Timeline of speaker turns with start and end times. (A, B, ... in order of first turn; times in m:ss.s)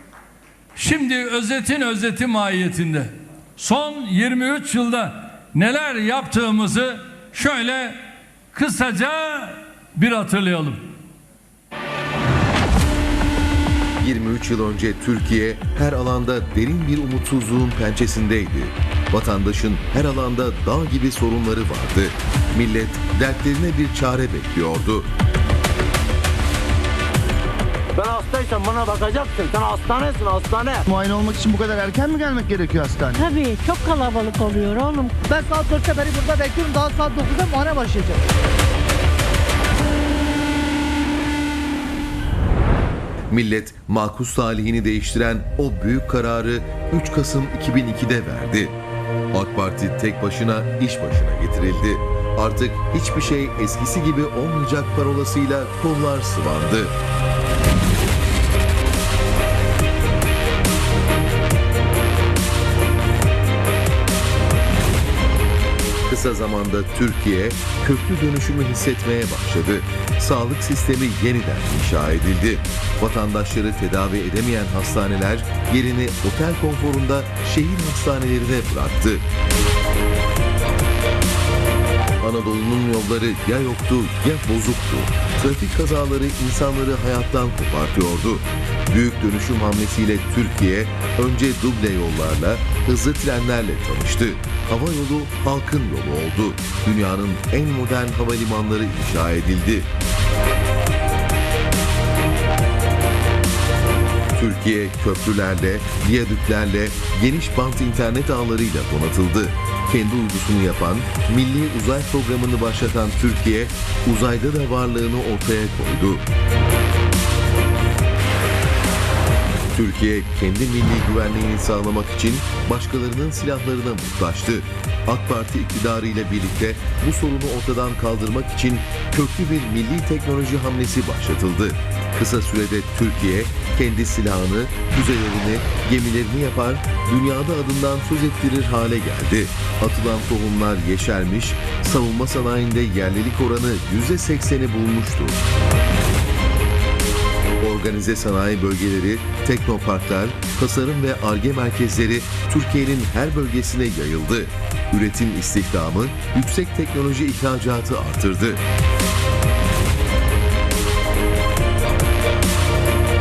0:00.7-0:07.9 A
0:08.5-0:10.8 A
0:14.0-0:25.1 B
0:27.9-0:30.7 C
0:30.9-0:33.2 D
0:33.2-0:35.2 E
0:35.2-0:38.2 F
0:43.3-0:48.7 B
0:49.3-0:56.9 B
1:06.0-1:19.2 B
1:22.2-1:39.9 B
1:44.4-1:56.2 B
1:59.7-2:25.4 B
2:27.6-2:38.6 B